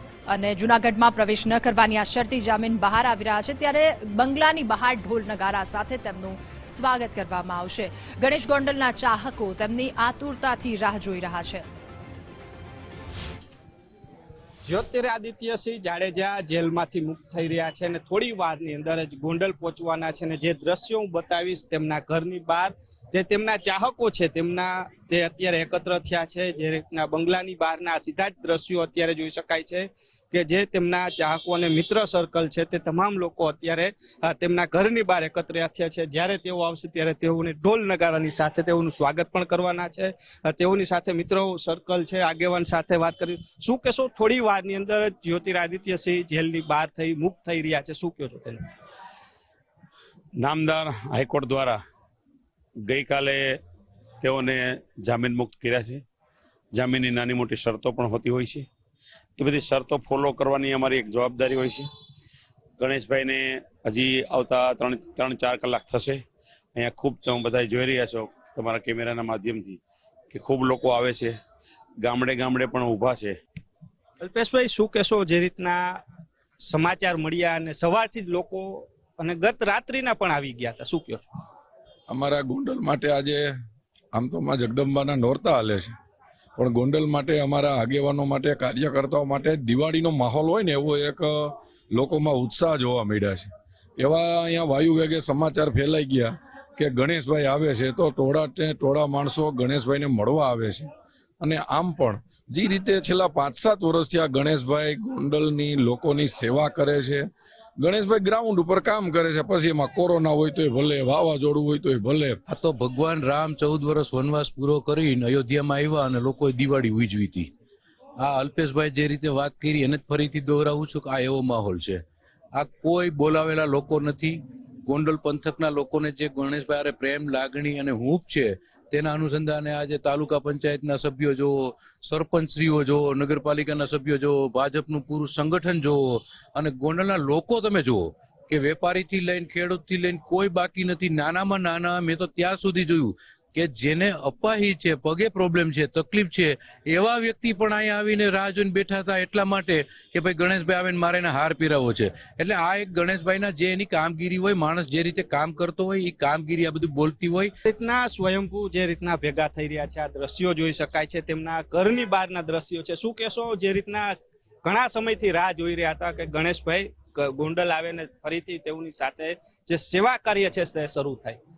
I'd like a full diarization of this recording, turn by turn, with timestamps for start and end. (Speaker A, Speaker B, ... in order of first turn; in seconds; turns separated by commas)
Speaker A: 0.3-11.6, Speaker B: 14.7-48.6, Speaker C: 50.4-51.8, Speaker C: 52.9-53.5, Speaker C: 54.2-56.0, Speaker C: 56.7-58.6, Speaker C: 59.4-61.8, Speaker C: 62.8-66.2, Speaker C: 66.8-69.8, Speaker C: 70.3-71.3, Speaker C: 72.0-73.3, Speaker B: 74.2-76.0, Speaker B: 76.6-81.2, Speaker D: 82.1-83.5, Speaker D: 84.1-85.9, Speaker D: 86.5-100.9, Speaker D: 101.4-107.2, Speaker D: 107.8-112.4, Speaker E: 112.5-117.5, Speaker E: 118.2-122.0, Speaker E: 122.5-157.5, Speaker B: 157.7-171.4